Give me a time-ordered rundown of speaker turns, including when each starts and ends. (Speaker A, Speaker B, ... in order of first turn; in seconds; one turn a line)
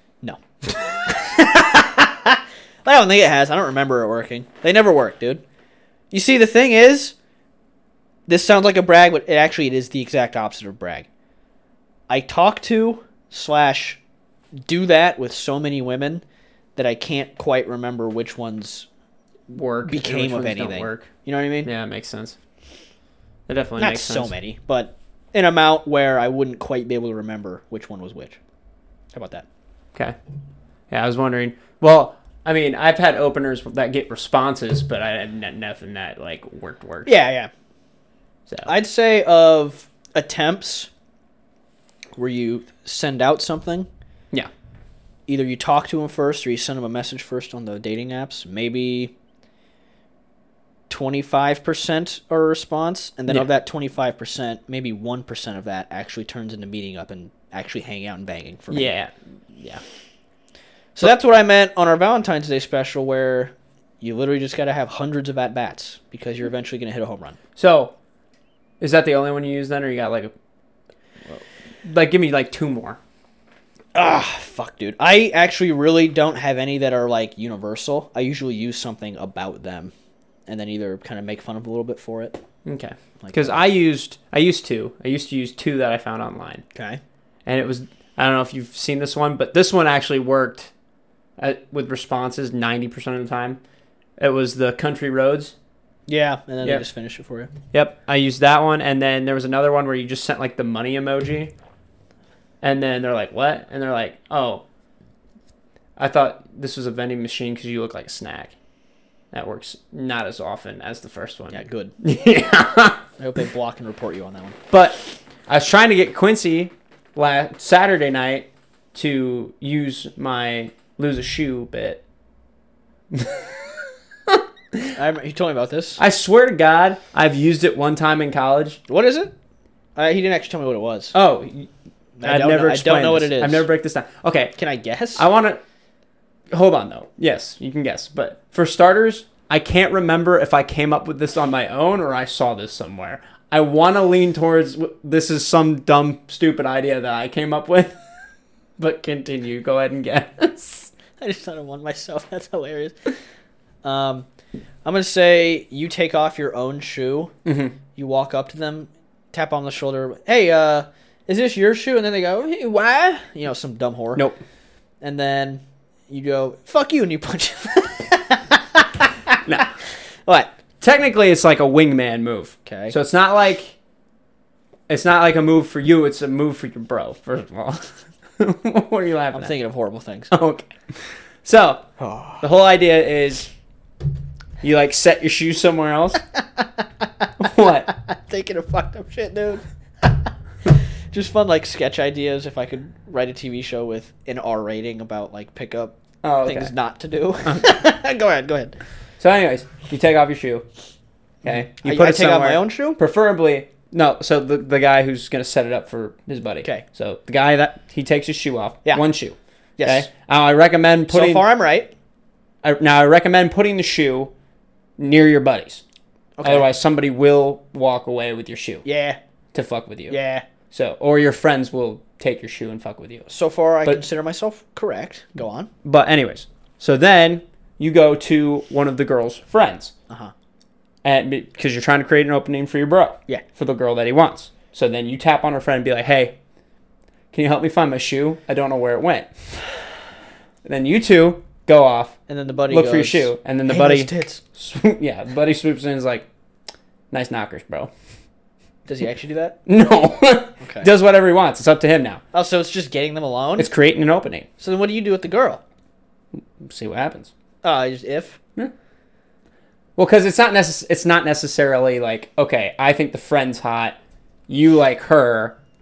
Speaker A: 0.2-5.4
Speaker A: 6.1-7.1
Speaker A: 8.3-11.1
Speaker A: 12.1-14.0
Speaker A: 14.7-16.2
Speaker A: 16.8-18.9
Speaker B: 19.5-21.1
Speaker A: 19.9-21.7
Speaker B: 21.6-22.4
Speaker B: 23.5-24.3
Speaker A: 23.8-28.4
Speaker A: 29.1-29.5
Speaker B: 30.9-37.1
Speaker A: 37.1-37.5
Speaker A: 38.6-40.9
Speaker A: 42.1-43.9
Speaker A: 45.3-49.1
Speaker A: 50.9-58.9
Speaker B: 58.7-59.8
Speaker A: 61.0-67.4
Speaker B: 67.6-67.9
Speaker B: 68.8-70.3
Speaker B: 71.3-73.0
Speaker A: 73.9-79.9
Speaker A: 80.5-82.4
Speaker B: 82.7-86.6
Speaker A: 83.2-83.6
Speaker A: 86.8-87.0
Speaker B: 87.5-90.7
Speaker B: 91.4-93.6
Speaker B: 94.2-95.5
Speaker A: 96.1-97.5
Speaker B: 97.7-101.5
Speaker B: 102.6-104.6
Speaker B: 106.0-108.5
Speaker B: 109.3-113.0
Speaker A: 111.5-111.9
Speaker A: 113.2-114.6
Speaker B: 114.7-122.0
Speaker B: 123.1-124.9
Speaker A: 124.9-126.0
Speaker B: 126.0-128.8
Speaker A: 128.9-129.3
Speaker A: 130.0-131.1
Speaker B: 131.1-131.7
Speaker A: 132.2-133.7
Speaker B: 132.2-134.6
Speaker A: 134.6-135.2
Speaker B: 135.2-135.6
Speaker B: 136.5-148.0
Speaker B: 148.8-150.9
Speaker A: 151.2-152.9
Speaker A: 153.8-154.2
Speaker A: 154.8-157.3
Speaker B: 157.4-157.8
Speaker A: 158.0-164.2
Speaker B: 164.2-164.4
Speaker A: 165.0-169.7
Speaker B: 170.8-173.7
Speaker A: 172.7-173.0
Speaker B: 174.9-179.5
Speaker A: 179.3-180.3
Speaker B: 180.3-181.9
Speaker A: 182.0-182.5
Speaker B: 182.4-183.5
Speaker B: 184.6-186.2
Speaker B: 187.4-187.9
Speaker A: 187.9-190.1
Speaker A: 190.7-195.9
Speaker B: 196.2-196.7
Speaker A: 196.4-198.8
Speaker B: 197.4-197.8
Speaker B: 199.2-200.7
Speaker A: 201.4-203.0
Speaker B: 201.4-211.4
Speaker A: 209.8-210.1
Speaker A: 211.1-211.9
Speaker B: 212.6-214.3
Speaker B: 215.0-215.8
Speaker A: 216.4-216.7
Speaker B: 216.4-218.8
Speaker A: 218.8-219.2
Speaker B: 219.5-220.2
Speaker A: 220.1-220.4
Speaker B: 220.7-223.3
Speaker A: 223.3-225.7
Speaker B: 225.8-229.9
Speaker B: 231.0-236.4
Speaker B: 237.3-239.3
Speaker B: 240.6-242.2
Speaker A: 242.3-244.4
Speaker B: 242.7-246.3
Speaker B: 247.1-247.9
Speaker A: 248.9-249.6
Speaker B: 249.7-252.2
Speaker A: 250.6-250.9
Speaker A: 252.3-253.7
Speaker B: 253.6-254.5
Speaker A: 254.6-255.6
Speaker B: 256.4-257.3
Speaker A: 257.6-258.4
Speaker B: 260.0-264.0
Speaker B: 264.5-265.6